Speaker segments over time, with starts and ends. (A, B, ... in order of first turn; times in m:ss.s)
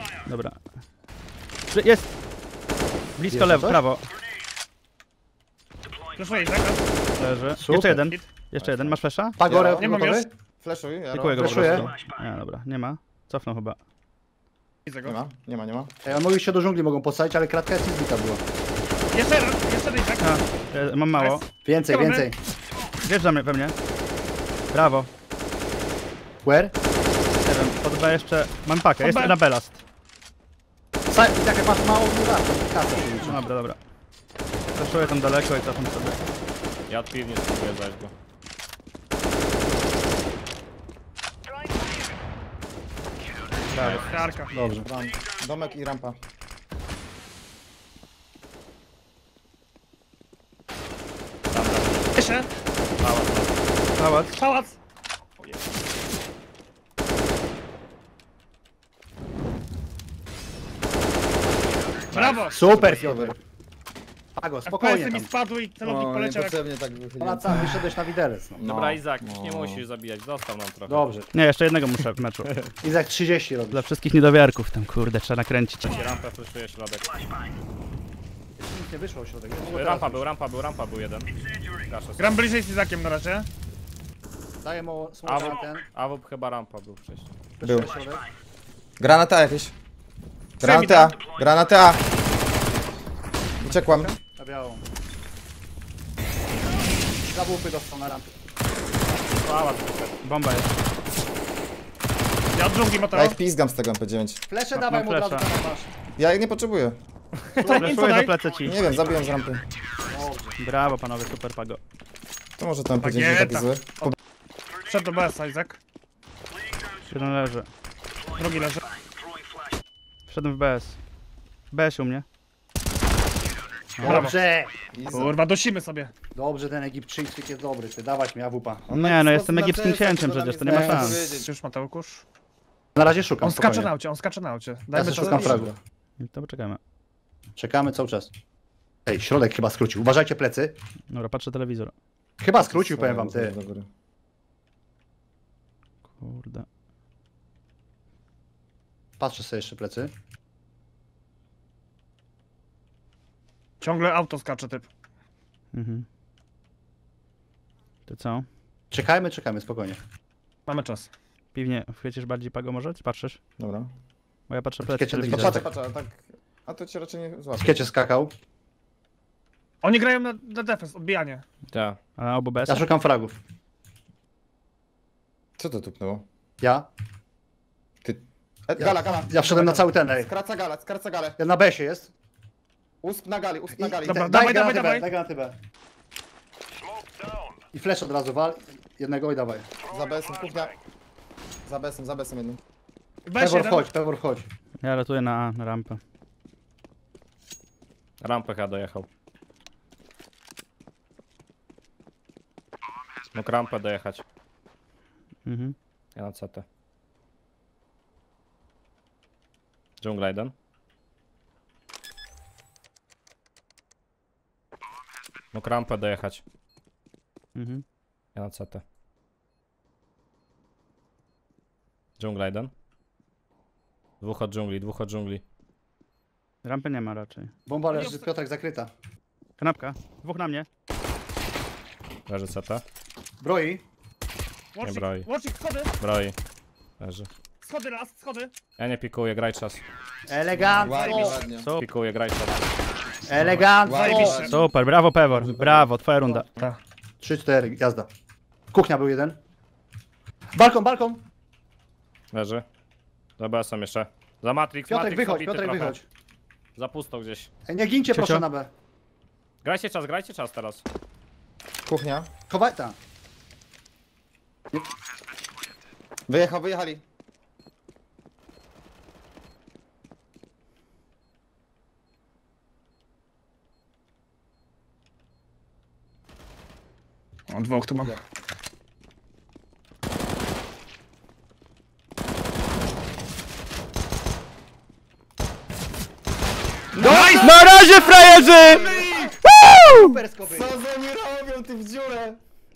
0:00.2-0:00.6 A
0:01.7-0:02.1 A
0:03.2-0:04.1 A
0:03.3-0:03.9 B
0:06.2-0:06.8 C
0:07.2-0:09.4 A
0:07.5-0:08.0 B
0:08.6-0:09.0 D
0:09.4-0:10.3 B
0:09.4-0:09.9 E
0:09.8-0:10.3 C
0:10.6-0:11.9 E
0:11.1-0:13.8 A
0:11.3-0:11.9 B
0:14.9-0:15.2 C
0:15.0-0:15.9 E
0:16.0-0:18.4 B
0:19.1-0:20.4 C
0:20.2-0:21.4 A
0:21.1-0:22.3 C
0:21.6-0:22.3 B
0:23.0-0:23.8 A
0:24.7-0:25.1 A
0:26.4-0:26.7 B
0:27.4-0:29.8 A
0:29.0-0:29.4 C
0:31.1-0:33.5 B
0:33.2-0:33.8 A
0:34.8-0:36.2 A
0:36.9-0:38.1 D
0:43.7-0:44.0 A
0:43.7-0:44.1 D
0:44.0-0:44.6 C
0:44.5-0:44.9 B
0:44.8-0:46.2 E
0:51.5-0:52.1 D
0:52.2-0:52.5 C
0:53.0-0:53.6 D
0:54.0-0:54.4 A
0:54.3-0:54.8 C
1:02.1-1:02.7 C
1:02.1-1:03.4 E
1:02.5-1:03.4 B
1:04.4-1:05.3 B
1:04.6-1:06.6 C
1:05.8-1:07.8 E
1:07.2-1:08.7 B
1:08.6-1:09.8 E
1:08.6-1:11.1 D
1:10.9-1:11.3 B
1:11.3-1:12.6 A
1:12.8-1:13.9 B
1:13.7-1:15.9 A
1:15.8-1:17.3 D
1:18.6-1:20.3 B
1:19.6-1:22.4 D
1:22.2-1:23.5 C
1:24.6-1:25.9 B
1:25.3-1:27.3 D
1:27.6-1:28.2 B
1:27.6-1:27.9 E
1:29.0-1:29.7 E
1:30.6-1:32.0 E
1:30.6-1:31.2 C
1:33.6-1:34.1 E
1:33.6-1:34.1 A
1:34.2-1:34.8 B
1:37.3-1:38.3 B
1:39.3-1:40.2 D
1:40.2-1:40.7 A
1:42.5-1:43.4 C
1:43.1-1:44.4 E
1:44.5-1:45.9 B
1:44.7-1:45.5 A
1:46.2-1:47.0 E
1:47.6-1:47.9 B
1:47.6-1:48.4 C
1:47.7-1:48.8 A
1:48.6-1:49.6 E
1:50.1-1:50.6 B
1:50.6-1:51.8 A
1:52.6-1:54.1 E
1:53.0-1:54.2 C
1:54.9-1:55.8 C
1:57.1-1:57.7 A
1:58.4-1:58.8 C
2:00.3-2:01.0 A
2:01.7-2:02.2 A
2:04.0-2:04.2 A
2:04.0-2:04.8 B
2:04.0-2:04.4 C
2:04.9-2:05.3 E
2:05.1-2:06.1 C
2:06.4-2:08.9 B
2:08.9-2:11.5 E
2:08.9-2:11.3 A
2:10.6-2:11.2 B
2:11.3-2:12.2 C
2:13.0-2:13.9 B
2:13.4-2:15.6 C
2:14.9-2:15.7 B
2:15.0-2:15.8 E
2:16.2-2:16.8 A
2:17.6-2:18.3 B
2:19.1-2:20.8 B
2:21.1-2:21.9 A
2:22.4-2:23.6 B
2:22.6-2:23.9 E
2:26.2-2:26.6 A
2:29.2-2:30.1 B
2:33.8-2:34.9 C
2:35.7-2:36.1 A
2:38.1-2:38.5 A
2:38.9-2:40.0 B
2:40.7-2:41.1 C
2:41.5-2:43.4 A
2:43.6-2:43.9 E
2:44.5-2:45.7 A
2:44.8-2:45.6 B
2:45.3-2:47.9 E
2:47.6-2:48.3 B
2:49.8-2:51.4 C
2:51.7-2:52.0 D
2:52.2-2:52.9 A
2:52.7-2:53.4 B
2:55.6-2:56.3 E
2:56.6-2:56.9 B
2:58.0-3:01.4 E
2:58.8-3:00.3 B
3:01.4-3:02.1 B
3:03.0-3:04.3 E
3:03.7-3:05.6 B
3:04.0-3:05.1 C
3:07.7-3:09.8 B
3:09.8-3:10.8 E
3:11.6-3:12.6 E
3:13.3-3:13.9 C
3:13.4-3:14.5 B
3:14.8-3:16.0 A
3:18.2-3:19.1 D
3:23.3-3:24.2 D
3:25.5-3:25.8 A
3:26.2-3:26.6 D
3:30.0-3:30.5 D
3:35.5-3:36.4 D
3:37.6-3:37.8 A
3:38.4-3:38.8 D
3:42.2-3:42.7 D
3:44.2-3:45.4 D
3:46.6-3:47.5 A
3:47.7-3:48.9 B
3:47.9-3:48.3 C
3:49.6-3:50.7 A
3:52.3-3:52.8 D
3:53.4-3:53.8 B
3:54.7-3:55.9 C
3:54.8-3:55.3 D
3:56.0-3:56.4 D
3:57.0-3:57.3 D
3:57.6-3:58.5 C
3:58.8-3:59.8 D
4:00.3-4:01.4 B
4:00.6-4:01.7 E
4:01.5-4:01.8 A
4:01.8-4:02.7 D
4:03.2-4:04.5 B
4:03.6-4:04.6 E
4:04.0-4:04.6 C
4:04.4-4:06.5 A
4:05.4-4:05.9 E
4:07.2-4:08.1 B
4:08.7-4:09.4 B
4:10.5-4:11.2 B
4:12.3-4:12.6 D
4:13.4-4:16.0 D
4:14.9-4:16.0 B
4:16.8-4:17.5 D
4:17.7-4:18.7 B
4:18.1-4:18.4 A
4:19.6-4:20.8 D
4:21.9-4:22.3 E
4:22.5-4:23.0 B
4:26.3-4:27.0 E
4:37.5-4:38.1 C
4:46.9-4:49.3 E
4:47.1-4:47.6 C
4:47.4-4:50.2 A
4:49.8-4:50.7 B
4:50.4-4:52.4 E